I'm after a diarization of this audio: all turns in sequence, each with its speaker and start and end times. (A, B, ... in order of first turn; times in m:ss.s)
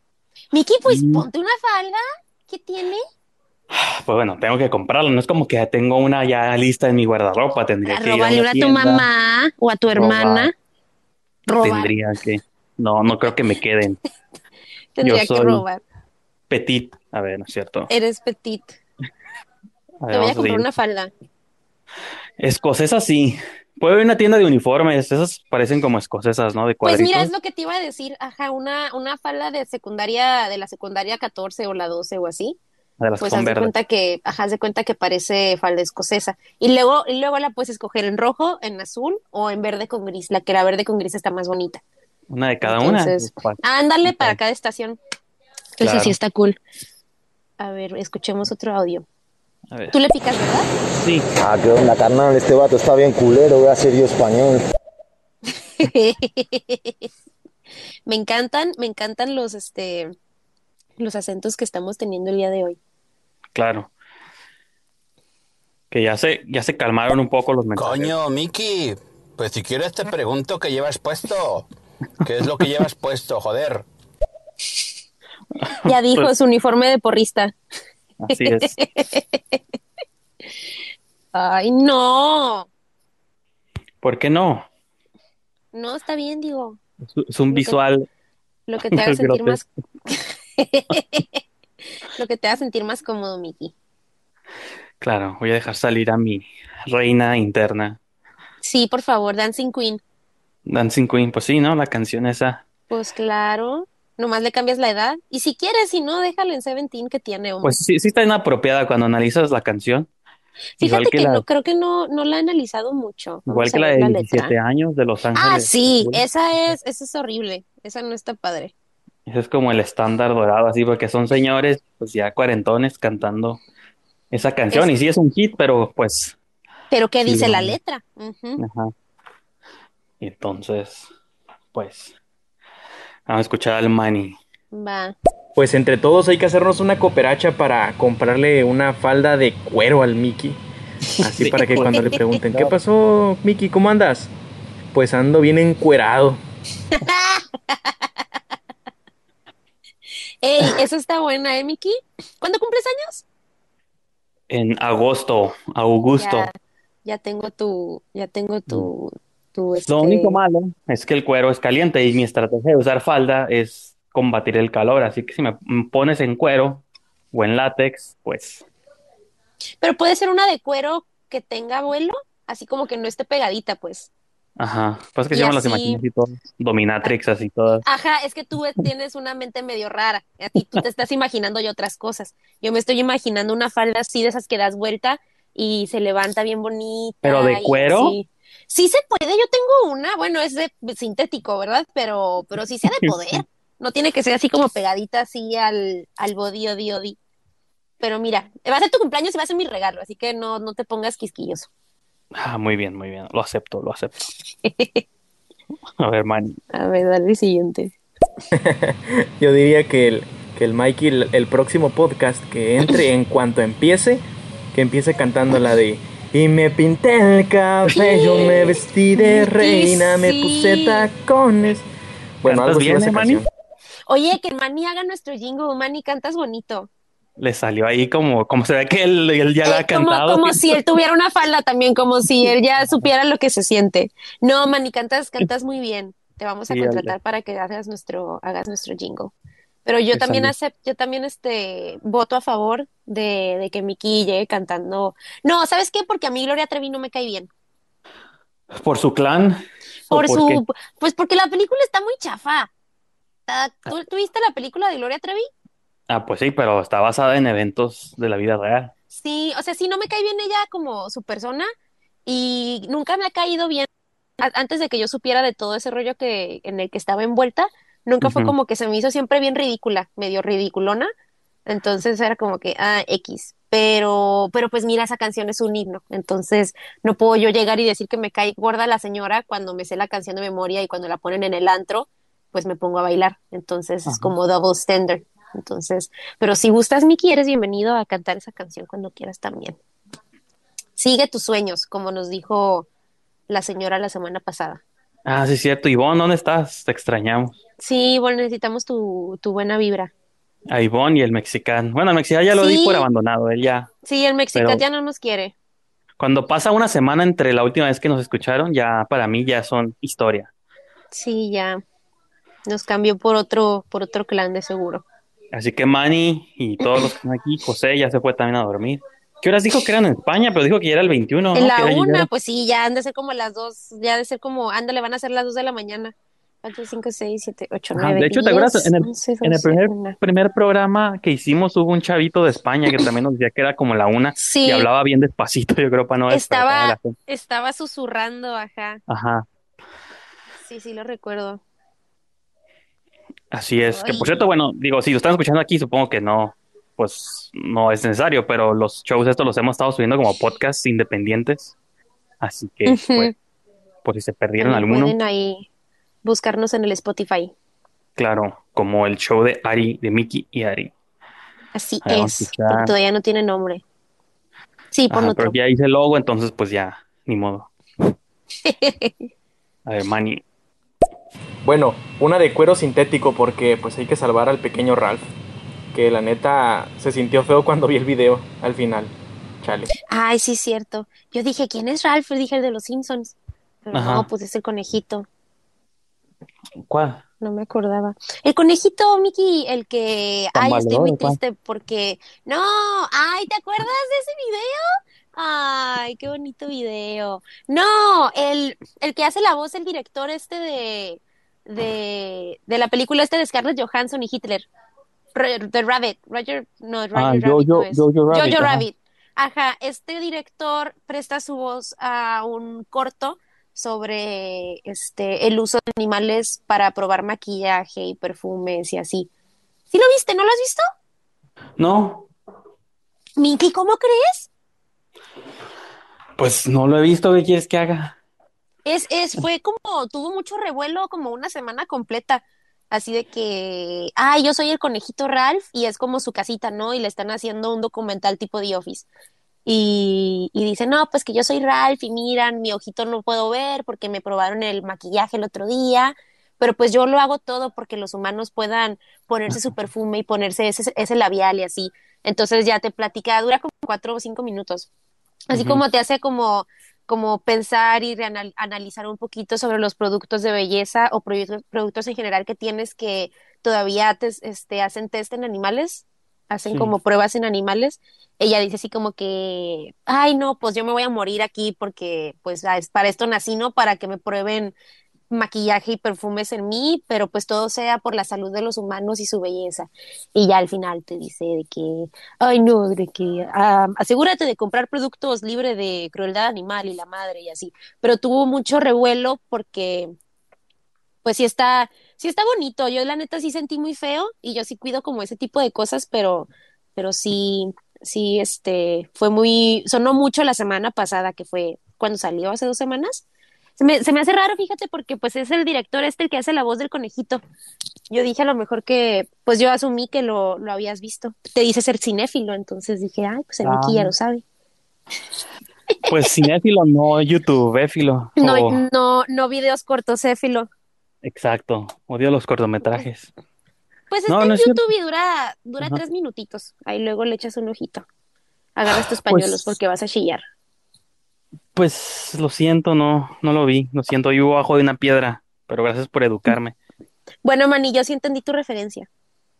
0:00.5-0:03.0 A
0:00.9-0:01.3 B
0:03.7-0:09.1 B
0:07.8-0:10.5 A
0:09.9-0:10.5 B
0:11.5-0:11.9 A
0:11.6-0:14.0 B
0:15.0-0:15.8 A
0:15.0-0:15.6 B
0:16.5-0:17.9 B
0:17.9-0:18.8 A
0:20.0-0:20.7 B
0:20.1-0:21.1 A
0:22.4-0:27.3 B
0:26.8-0:32.6 A
0:33.0-0:33.7 B
0:33.2-0:41.8 A
0:42.3-0:44.4 B
0:42.6-0:45.0 A
0:45.8-0:46.6 A
0:45.8-0:46.2 B
0:47.6-0:49.0 A
0:49.9-0:50.7 A
0:51.0-0:51.3 B
0:51.4-0:54.6 C
0:55.8-0:57.1 A
0:58.1-1:00.1 A
1:01.0-1:02.8 A
1:03.6-1:03.9 B
1:05.9-1:08.1 B
1:07.8-1:11.7 D
1:12.2-1:13.9 D
1:15.6-1:16.3 B
1:15.8-1:17.5 A
1:18.2-1:18.8 B
1:18.4-1:19.6 A
1:21.3-1:22.7 A
1:24.0-1:24.7 B
1:25.7-1:26.8 A
1:27.1-1:28.1 B
1:27.5-1:27.8 A
1:28.7-1:31.4 A
1:28.9-1:29.6 B
1:32.2-1:33.7 A
1:35.0-1:38.0 B
1:38.6-1:40.0 A
1:40.7-1:42.6 B
1:42.9-1:47.8 A
1:47.6-1:50.1 B
1:50.8-1:54.5 A
1:50.8-1:51.4 B
1:53.5-1:56.2 B
1:55.4-1:58.7 A
1:59.3-2:03.6 B
2:04.3-2:06.4 B
2:06.9-2:08.6 A
2:07.2-2:07.8 B
2:08.6-2:08.9 B
2:10.2-2:11.1 B
2:11.7-2:12.1 B
2:13.3-2:14.4 B
2:14.7-2:15.2 A
2:15.6-2:20.6 E
2:21.2-2:24.3 E
2:21.4-2:22.7 B
2:21.5-2:22.4 A
2:24.9-2:26.4 E
2:26.9-2:27.9 A
2:30.4-2:33.2 A
2:34.5-2:36.5 B
2:36.2-2:36.5 A
2:37.0-2:40.4 A
2:39.9-2:48.7 B
2:49.8-2:54.1 A
2:54.6-2:57.8 B
2:55.3-2:56.0 A
2:57.8-3:17.2 A
3:07.2-3:08.2 B
3:13.0-3:13.4 B
3:18.0-3:21.7 A
3:22.4-3:24.2 B
3:24.6-3:25.0 A
3:26.0-3:26.6 B
3:26.7-3:27.9 A
3:28.5-3:41.9 E
3:37.9-3:41.1 A
3:42.4-3:43.5 E
3:42.4-3:43.4 B
3:44.1-3:46.9 A
3:47.4-3:50.8 B
3:49.6-3:59.3 A
3:56.7-3:57.1 B
3:59.9-4:07.5 A
4:00.1-4:00.5 B
4:08.7-4:10.6 B
4:10.1-4:12.7 A
4:13.5-4:15.5 A
4:16.1-4:18.9 B
4:19.2-4:21.7 A
4:22.3-4:23.9 A
4:24.4-4:31.1 A
4:28.2-4:28.5 B
4:31.7-4:49.8 A
4:44.1-4:44.3 B
4:51.0-4:52.9 A
4:53.5-4:54.8 A
4:55.3-4:57.6 B
4:57.8-5:00.1 A
5:00.7-5:03.9 B
5:02.6-5:03.1 A
5:04.0-5:05.5 A
5:04.6-5:04.8 B
5:06.2-5:10.5 B
5:11.1-5:11.8 A
5:12.7-5:15.0 A
5:15.5-5:22.3 B
5:16.8-5:17.1 A
5:21.6-5:30.2 A
5:28.0-5:37.1 B
5:34.4-5:34.9 A
5:36.3-5:39.0 A
5:39.1-5:39.5 B
5:40.6-5:41.6 A
5:43.5-5:51.7 B
5:43.9-5:44.4 A
5:52.4-5:53.3 B
5:52.9-5:53.3 A
5:54.0-5:55.2 B
5:54.6-5:55.7 A
5:56.2-5:57.5 A
5:58.2-6:00.9 B
6:01.7-6:03.8 A
6:02.0-6:02.9 B
6:04.9-6:05.6 A
6:05.1-6:07.7 B
6:08.6-6:09.2 A
6:09.9-6:10.4 B
6:11.6-6:15.3 E
6:15.9-6:19.9 E
6:20.1-6:25.3 A
6:23.9-6:24.3 B
6:26.8-6:27.2 B
6:27.4-6:44.7 A
6:30.6-6:31.4 B
6:45.4-6:59.3 A
6:47.2-6:48.8 B
6:59.9-7:00.8 A
7:01.8-7:02.3 B
7:03.4-7:04.5 A
7:06.4-7:08.2 B
7:08.8-7:19.1 A
7:19.7-7:34.9 A
7:35.5-7:54.8 A
7:35.5-7:35.8 B
7:55.3-8:10.1 A
8:11.2-8:23.2 A
8:23.8-8:27.4 A
8:28.1-8:34.4 A
8:33.6-8:34.1 B
8:36.0-8:36.4 A
8:36.1-8:38.8 B
8:38.4-8:40.7 A
8:41.2-8:43.3 B
8:44.1-8:48.1 A
8:44.3-8:44.8 B
8:48.8-8:50.4 A
8:48.9-8:49.7 B
8:51.8-8:56.8 B
8:57.4-8:59.1 A